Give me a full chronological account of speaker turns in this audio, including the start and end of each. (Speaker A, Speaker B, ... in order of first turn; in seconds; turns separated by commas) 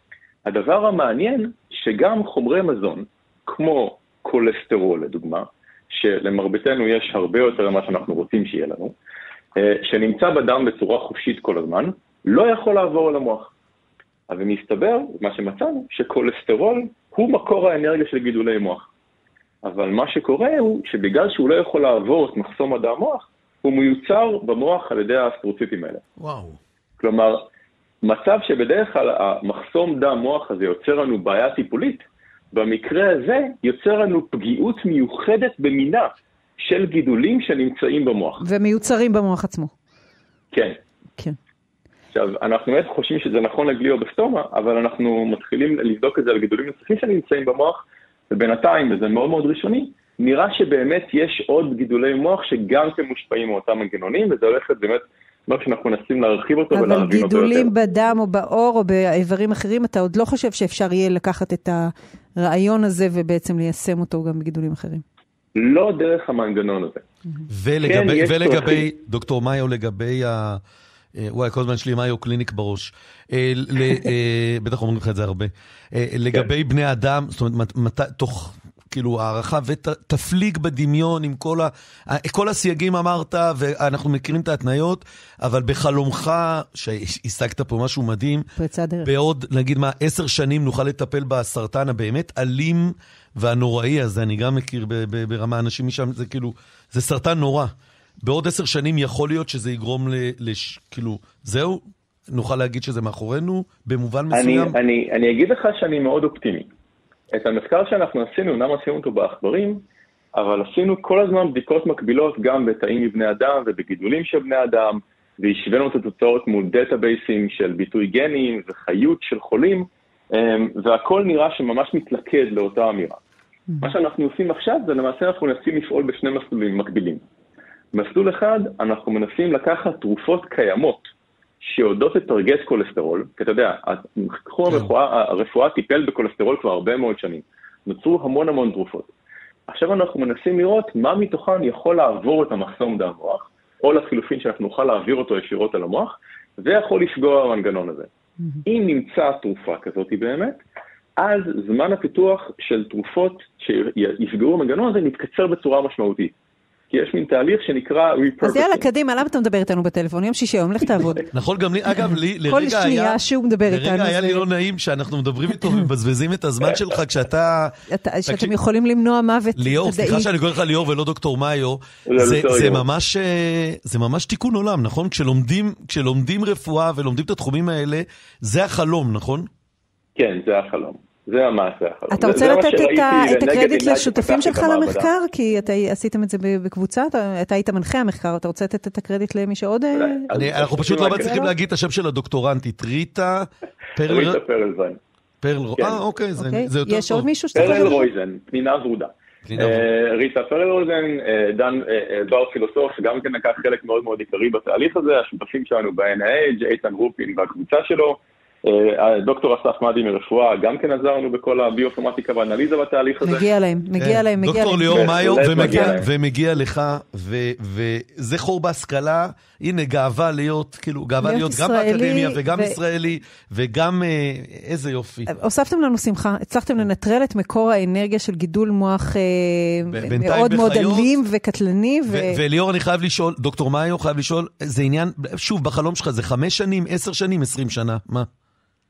Speaker A: 0.5-8.9, Speaker A: 9.6-13.5, Speaker A: 14.3-18.9, Speaker A: 19.6-26.0, Speaker B: 26.2-26.6, Speaker A: 27.0-27.4, Speaker A: 28.0-38.4, Speaker C: 38.4-39.7, Speaker A: 40.5-40.8, Speaker A: 42.1-57.7, Speaker C: 56.7-65.0, Speaker A: 65.6-67.0, Speaker B: 67.5-70.6, Speaker A: 67.8-68.8, Speaker B: 71.2-88.5, Speaker C: 88.6-89.1, Speaker B: 89.0-97.7, Speaker B: 98.2-104.8, Speaker A: 104.3-106.7, Speaker A: 107.3-109.8, Speaker A: 110.3-123.2, Speaker A: 123.8-127.2, Speaker A: 127.9-131.1, Speaker A: 131.6-139.1, Speaker A: 139.7-148.1, Speaker A: 148.7-150.6, Speaker A: 151.2-156.3, Speaker A: 156.9-158.8, Speaker C: 158.4-161.3, Speaker B: 161.3-167.7, Speaker C: 161.9-164.5, Speaker C: 167.9-170.3, Speaker B: 168.3-168.5, Speaker B: 169.6-179.5, Speaker A: 172.1-172.9, Speaker A: 180.2-185.1, Speaker C: 182.1-190.3, Speaker A: 189.9-191.5, Speaker B: 190.3-194.4, Speaker A: 194.0-195.0, Speaker B: 195.4-197.9, Speaker C: 196.4-198.1, Speaker A: 197.6-213.5, Speaker B: 199.5-199.9, Speaker C: 213.2-215.9, Speaker B: 214.0-225.3, Speaker A: 214.9-216.1, Speaker C: 221.2-222.8, Speaker C: 225.3-232.4, Speaker B: 229.9-231.2, Speaker B: 232.1-238.3